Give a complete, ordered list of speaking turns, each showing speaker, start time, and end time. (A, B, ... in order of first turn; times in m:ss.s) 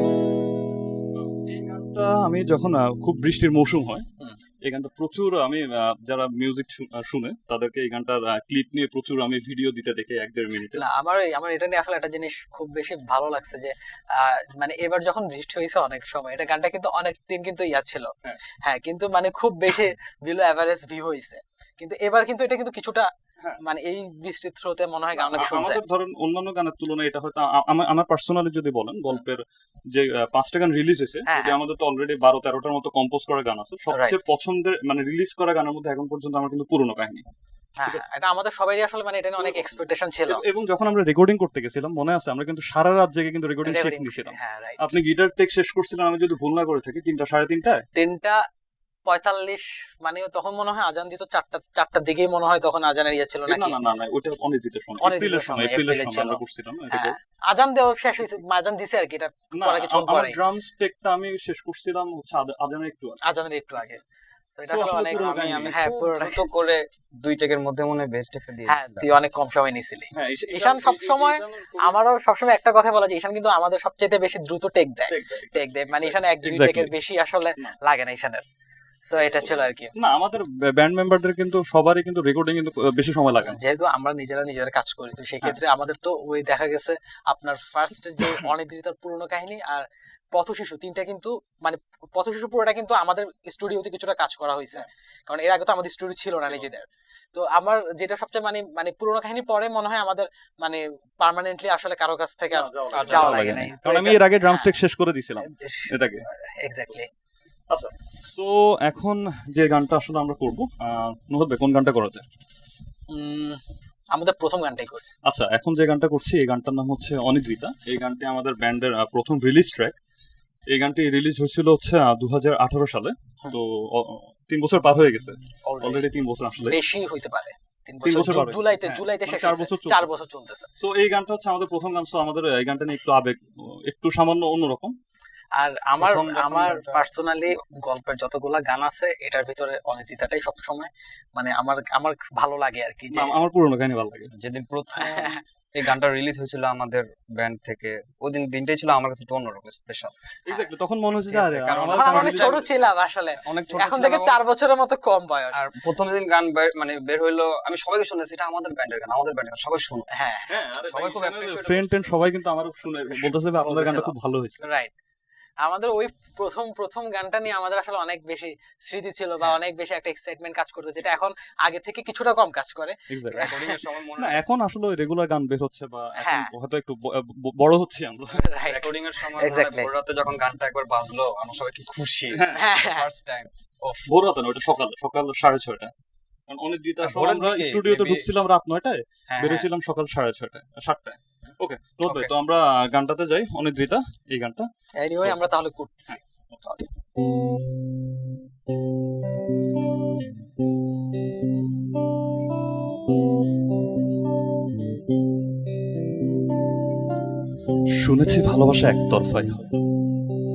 0:01.1-0:04.0 A
0:04.6-0:10.8 A
0:10.7-0:25.8 B
0:25.2-0:37.2 A
0:31.2-0:31.6 B
0:33.9-0:34.2 B
0:37.8-0:40.4 B
0:39.4-0:47.9 A
0:43.6-0:44.8 B
0:47.9-0:48.4 B
0:49.1-0:53.8 B
0:53.5-0:57.2 A
0:55.0-1:00.4 B
0:59.5-1:03.2 A
1:03.2-1:04.0 B
1:04.5-1:06.5 B
1:04.7-1:05.8 A
1:04.9-1:09.1 C
1:08.6-1:18.4 B
1:10.1-1:12.0 A
1:15.1-1:16.9 A
1:19.0-1:19.9 B
1:19.4-1:23.6 A
1:23.4-1:44.8 B
1:42.5-1:46.2 A
1:42.9-1:43.7 C
1:45.4-1:47.1 B
1:47.7-1:52.2 A
1:53.1-1:55.0 B
1:55.2-1:59.9 A
2:00.7-2:06.8 A
2:05.6-2:06.1 B
2:06.7-2:10.7 B
2:08.0-2:10.1 A
2:10.8-2:14.9 A
2:15.6-2:23.4 B
2:16.0-2:17.0 C
2:23.1-2:24.3 A
2:24.4-2:30.1 C
2:25.0-2:25.4 B
2:30.5-2:32.8 A
2:31.3-2:34.4 C
2:31.9-2:35.6 B
2:35.5-2:40.1 C
2:40.1-2:40.6 B
2:40.5-2:44.6 A
2:40.8-2:42.1 C
2:43.6-2:44.9 B
2:45.6-2:53.8 B
2:53.1-2:53.6 A
2:53.4-2:54.4 C
2:54.2-2:58.7 A
2:56.2-2:56.5 B
2:58.4-2:59.9 B
2:58.6-3:04.1 C
3:02.3-3:02.7 A
3:02.5-3:03.1 B
3:04.0-3:05.9 A
3:06.5-3:14.7 A
3:07.0-3:08.3 C
3:09.3-3:09.7 C
3:12.0-3:12.3 C
3:15.0-3:16.2 B
3:16.1-3:16.6 A
3:27.9-3:29.7 A